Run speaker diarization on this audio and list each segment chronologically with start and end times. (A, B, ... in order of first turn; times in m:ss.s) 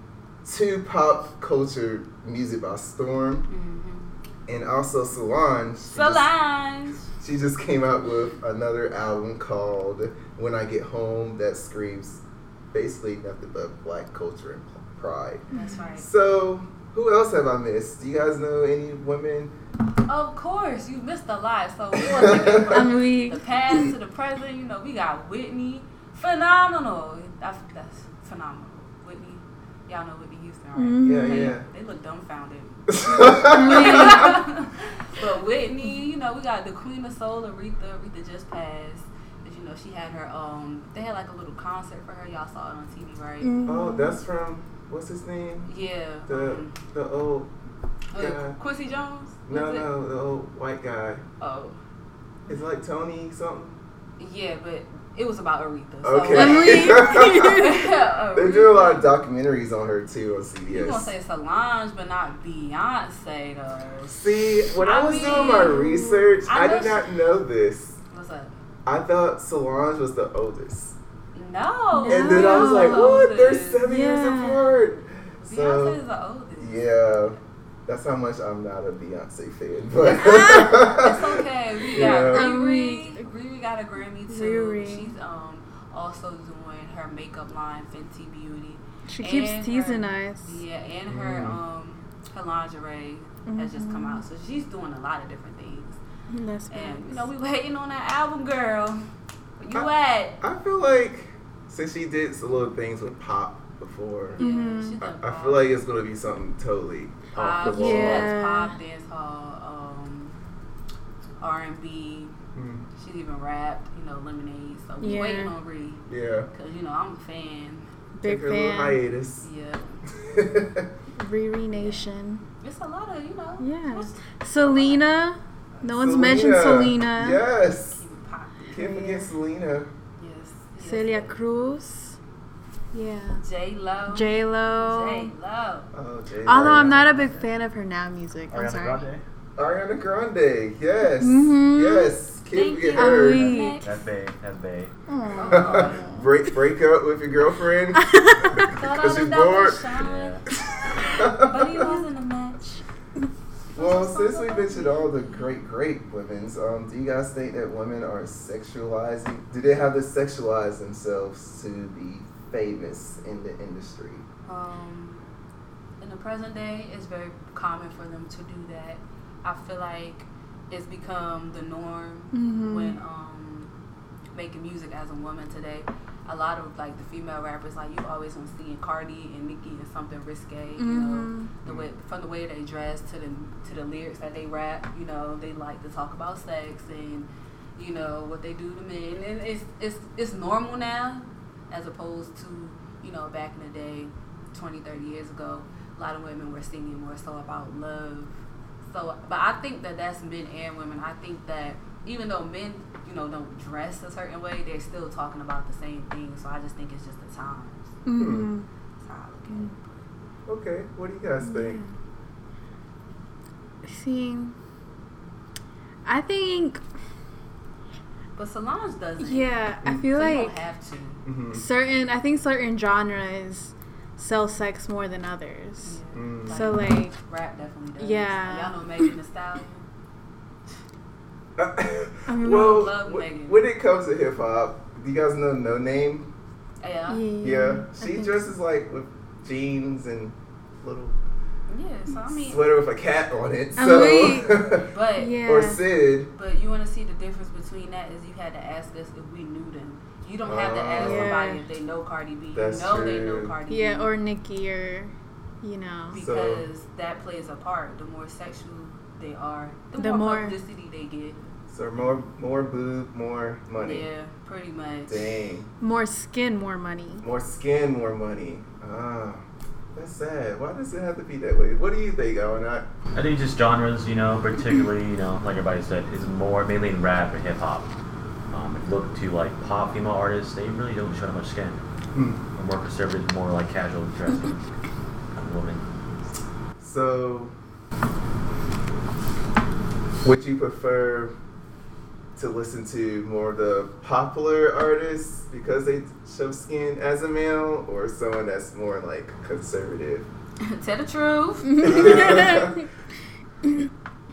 0:00.4-0:03.5 A
0:03.5-0:04.1 B
0:04.5-0:06.3 A
0:05.9-0:07.1 B
0:07.0-0:19.5 A
0:15.5-0:16.0 B
0:20.1-0:43.5 B
0:21.9-0:22.9 A
0:22.7-0:23.9 C
0:30.8-0:31.5 C
0:31.0-0:31.6 A
0:32.9-0:34.4 A
0:33.5-0:34.4 C
0:43.4-0:44.2 C
0:43.6-0:45.7 A
0:45.6-0:46.8 B
0:46.3-0:47.5 A
0:48.1-0:49.9 B
0:48.2-0:48.6 A
0:49.5-0:51.2 A
0:51.4-0:51.8 B
0:52.5-0:53.8 A
0:54.2-0:59.1 B
0:56.0-0:57.6 A
0:56.3-0:57.9 C
0:58.3-1:01.1 A
1:00.7-1:04.2 B
1:04.1-1:08.0 A
1:04.8-1:05.9 B
1:05.2-1:06.2 C
1:06.5-1:07.0 B
1:08.1-1:08.5 B
1:08.8-1:11.0 A
1:11.3-1:13.8 B
1:11.9-1:13.1 C
1:12.1-1:16.0 A
1:13.8-1:14.6 C
1:15.4-1:16.8 B
1:16.6-1:22.5 A
1:20.2-1:20.8 C
1:20.4-1:36.0 B
1:21.9-1:23.2 C
1:24.3-1:25.1 C
1:29.1-1:30.6 C
1:31.1-1:31.6 A
1:33.5-1:34.2 C
1:36.3-1:37.2 C
1:36.7-1:39.0 B
1:39.6-1:40.4 B
1:40.4-1:44.4 A
1:44.3-1:45.7 B
1:44.4-1:45.0 C
1:45.0-1:48.3 A
1:47.3-1:50.4 B
1:47.7-1:48.7 C
1:51.4-1:52.3 B
1:52.5-1:52.8 A
1:52.9-1:57.9 B
1:55.0-1:55.5 C
1:56.1-1:56.5 A
1:58.1-1:59.0 C
1:58.2-1:59.4 A
1:59.4-2:00.0 B
2:00.1-2:00.9 A
2:01.1-2:02.4 C
2:01.7-2:02.0 B
2:02.6-2:05.0 B
2:03.6-2:07.4 C
2:05.9-2:08.0 A
2:07.9-2:08.8 B
2:08.7-2:09.9 A
2:08.7-2:09.3 C
2:10.2-2:11.4 B
2:10.8-2:12.2 C
2:12.9-2:13.4 C
2:13.4-2:15.9 B
2:14.1-2:15.3 C
2:15.9-2:17.3 A
2:16.4-2:19.0 C
2:18.5-2:19.2 D
2:19.6-2:23.5 A
2:21.2-2:22.1 C
2:22.5-2:23.9 B
2:22.9-2:23.8 C
2:23.8-2:24.9 D
2:25.1-2:26.3 C
2:25.3-2:26.0 B
2:25.5-2:29.9 A
2:28.0-2:28.7 C
2:28.6-2:30.4 B
2:30.0-2:30.4 D
2:30.8-2:31.9 A
2:30.9-2:32.6 B
2:33.7-2:44.2 A
2:33.7-2:35.5 B
2:44.5-2:45.2 B
2:46.0-2:53.7 B
2:52.3-2:53.0 C
2:54.3-3:28.0 B
3:00.8-3:01.5 C
3:28.0-3:28.7 C
3:28.2-3:28.5 A
3:29.0-3:30.1 B
3:30.4-3:31.8 A
3:31.4-3:31.9 C
3:33.8-3:34.6 C
3:36.0-3:36.8 C
3:38.4-3:41.2 B
3:39.2-3:40.6 C
3:39.8-3:40.1 A
3:41.2-3:41.6 A
3:41.5-3:47.2 C
3:45.8-3:49.9 B
3:46.1-3:46.8 A
3:48.0-3:48.8 C
3:51.6-3:56.3 A
3:52.3-3:52.9 C
3:52.4-3:53.7 B
3:56.8-3:57.3 B
3:57.1-3:58.4 C
3:57.4-4:01.2 A
4:01.7-4:02.6 B
4:02.1-4:04.9 A
4:03.8-4:04.5 C
4:04.8-4:05.4 B
4:05.2-4:05.8 C
4:05.4-4:06.3 A
4:06.3-4:14.1 B
4:10.4-4:11.3 A
4:11.0-4:11.6 C
4:12.5-4:13.6 A
4:13.7-4:16.2 C
4:16.1-4:22.2 B
4:16.1-4:16.7 A
4:20.0-4:20.6 C
4:21.7-4:24.1 A
4:23.8-4:25.3 B
4:25.1-4:25.7 A
4:25.8-4:27.2 C
4:27.2-4:32.9 A
4:33.1-4:37.9 D
4:38.5-4:41.8 D
4:42.1-4:42.4 A
4:42.5-4:44.6 D
4:45.3-4:45.8 D
4:46.8-4:47.5 A
4:50.2-4:51.3 A
4:52.4-5:00.3 A
5:00.6-5:02.5 B
5:01.6-5:02.8 C
5:01.8-5:02.8 A